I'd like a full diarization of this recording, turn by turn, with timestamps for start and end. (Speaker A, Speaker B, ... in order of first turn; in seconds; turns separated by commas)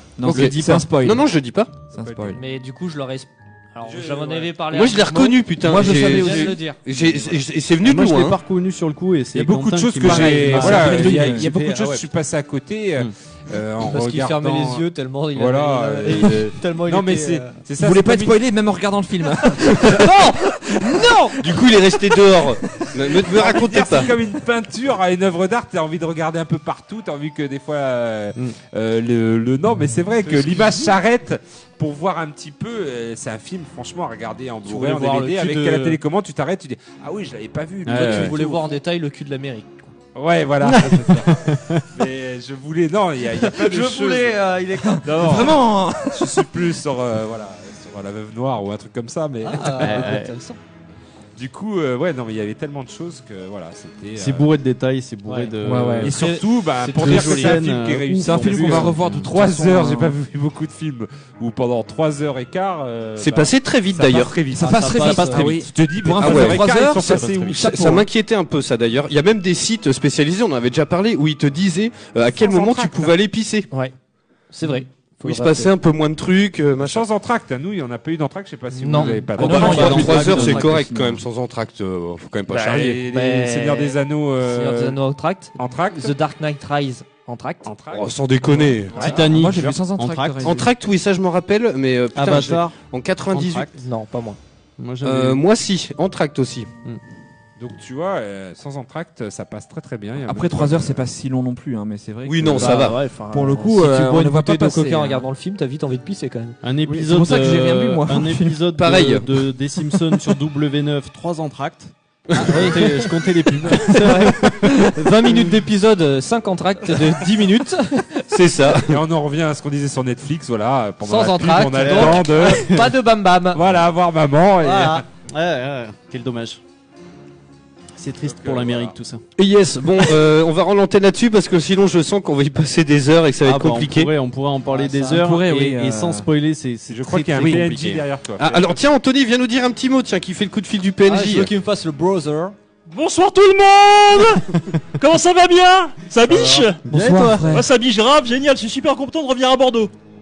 Speaker A: 0.2-1.3, Speaker B: 0.2-1.0, Speaker C: 0.2-1.7, Speaker A: 1.9-2.4, Speaker D: 1.9-2.4, Speaker E: 2.3-6.8, Speaker D: 3.8-4.6, Speaker C: 4.7-8.4, Speaker A: 5.6-7.2, Speaker B: 7.8-12.1, Speaker D: 9.3-18.4, Speaker A: 10.0-11.5, Speaker E: 13.8-17.6, Speaker A: 17.8-21.7, Speaker C: 21.4-24.1, Speaker D: 23.2-38.8, Speaker E: 30.2-30.9, Speaker E: 34.6-36.0, Speaker B: 37.9-38.4, Speaker E: 37.9-40.0, Speaker D: 40.1-50.2, Speaker B: 40.6-41.9, Speaker E: 43.3-45.5, Speaker A: 44.9-46.5, Speaker E: 49.4-50.6, Speaker B: 49.7-50.4, Speaker D: 51.4-54.5, Speaker B: 54.2-56.2, Speaker E: 55.2-57.6, Speaker A: 55.6-56.1, Speaker D: 56.0-67.6, Speaker B: 56.8-59.3, Speaker A: 58.2-60.2, Speaker C: 63.2-64.3, Speaker A: 64.5-68.1, Speaker E: 64.5-65.6, Speaker C: 66.2-66.6, Speaker B: 66.8-67.6, Speaker C: 67.5-73.7, Speaker D: 72.3-73.2, Speaker E: 74.5-75.7, Speaker C: 75.2-77.1, Speaker D: 76.8-80.2, Speaker E: 78.7-79.9, Speaker B: 78.9-80.8, Speaker A: 79.4-81.2, Speaker C: 79.4-83.0, Speaker D: 82.5-85.0, Speaker E: 83.1-87.7, Speaker D: 85.6-86.1, Speaker D: 87.7-88.1, Speaker C: 87.9-89.0, Speaker E: 88.9-89.2, Speaker D: 88.9-89.2, Speaker B: 89.0-90.7, Speaker A: 89.1-90.7, Speaker C: 90.4-93.7, Speaker B: 92.2-93.8, Speaker E: 93.8-94.4, Speaker B: 94.8-95.4, Speaker C: 95.0-96.7, Speaker D: 97.6-101.1, Speaker A: 100.2-105.3, Speaker C: 102.3-103.0, Speaker E: 102.5-106.6, Speaker B: 106.6-115.5, Speaker A: 106.8-108.7, Speaker C: 108.8-109.3, Speaker C: 112.3-112.7, Speaker E: 112.3-118.3, Speaker C: 118.3-119.0, Speaker D: 118.8-122.7, Speaker E: 121.0-123.6, Speaker B: 121.7-122.9, Speaker D: 123.5-125.0, Speaker E: 124.6-125.0, Speaker B: 125.3-126.6, Speaker B: 128.0-129.2, Speaker D: 128.2-129.0, Speaker C: 129.4-134.1, Speaker B: 133.4-138.1, Speaker E: 134.7-135.2, Speaker A: 135.1-136.3, Speaker D: 136.9-138.8, Speaker C: 138.4-141.5, Speaker E: 141.1-142.6, Speaker F: 142.9-146.8, Speaker E: 146.3-146.8, Speaker B: 146.6-147.6, Speaker A: 146.9-147.7, Speaker F: 147.5-149.9